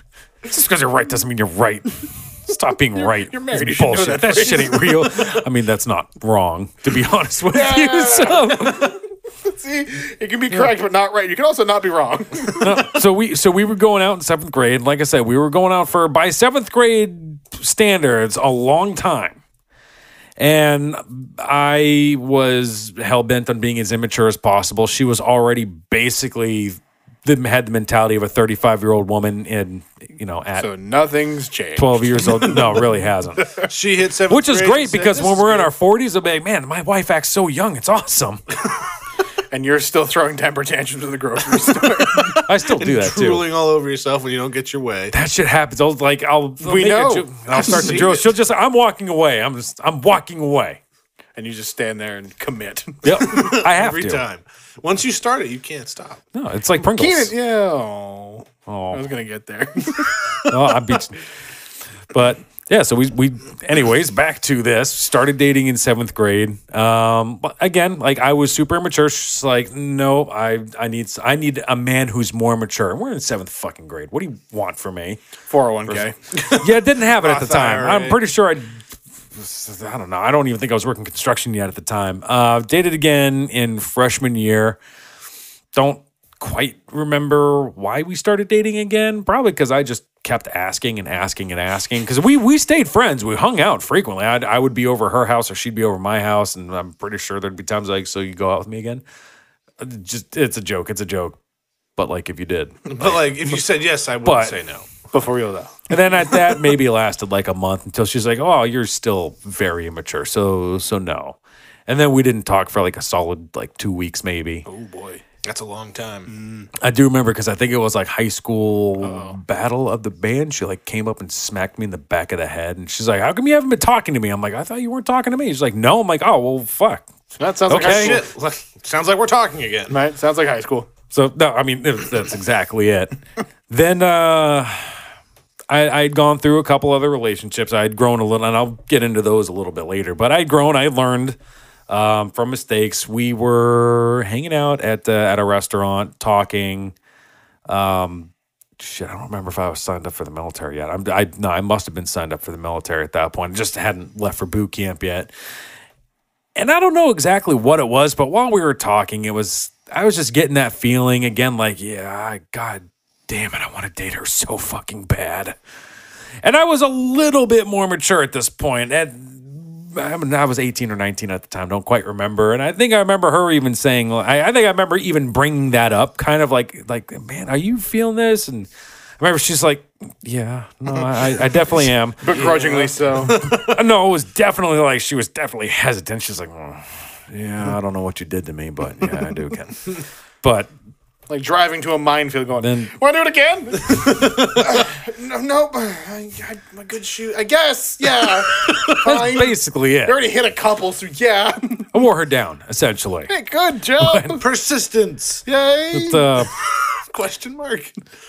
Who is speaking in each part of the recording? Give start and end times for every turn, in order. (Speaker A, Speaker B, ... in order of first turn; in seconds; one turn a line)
Speaker A: 0.5-9.0
Speaker B: 3.0-5.0
Speaker B: 7.5-12.9
Speaker A: 12.6-19.4
Speaker A: 20.4-30.7
Speaker B: 30.6-32.8
Speaker A: 31.8-33.6
Speaker C: 33.6-35.7
Speaker A: 34.3-38.4
Speaker B: 39.5-42.4
Speaker C: 42.2-45.1
Speaker A: 42.4-43.4
Speaker A: 45.1-50.8
Speaker B: 46.6-48.1
Speaker C: 47.5-48.3
Speaker B: 51.4-53.5
Speaker A: 53.0-54.2
Speaker C: 53.2-56.2
Speaker A: 56.3-57.3
Speaker B: 56.8-60.4
Speaker A: 58.7-59.0
Speaker A: 60.5-61.2
Speaker A: 62.1-75.2
Speaker B: 75.5-76.2
Speaker A: 75.9-84.8
Speaker C: 76.3-78.2
Speaker A: 85.8-99.0
Speaker A: 99.8-101.4
Speaker A: 102.0-103.6
Speaker C: 102.9-105.0
Speaker A: 104.2-104.6
Speaker B: 105.1-105.8
Speaker A: 105.9-114.7
Speaker B: 114.7-115.2
Speaker C: 115.4-116.3
Speaker B: 116.3-116.7
Speaker A: 116.8-127.1
Speaker B: 119.0-119.4
Speaker B: 127.4-128.2
Speaker A: 127.7-128.2
Speaker C: 127.7-130.0
Speaker B: 129.9-130.9
Speaker A: 131.1-133.2
Speaker A: 133.7-135.0
Speaker A: 135.7-141.4
Speaker A: 141.9-146.9
Speaker A: 147.7-155.3
Speaker A: 156.6-165.6
Speaker A: 166.4-178.7
Speaker A: 179.2-182.5
Speaker B: 182.2-183.5
Speaker C: 182.3-183.7
Speaker A: 183.4-190.7
Speaker B: 191.3-201.9
Speaker A: 192.6-192.9
Speaker C: 193.9-194.7
Speaker C: 198.2-198.9
Speaker A: 199.0-200.2
Speaker A: 201.9-203.3
Speaker B: 203.3-204.4
Speaker A: 204.0-204.4
Speaker C: 204.3-205.4
Speaker B: 205.5-206.3
Speaker A: 205.9-206.5
Speaker C: 206.5-207.9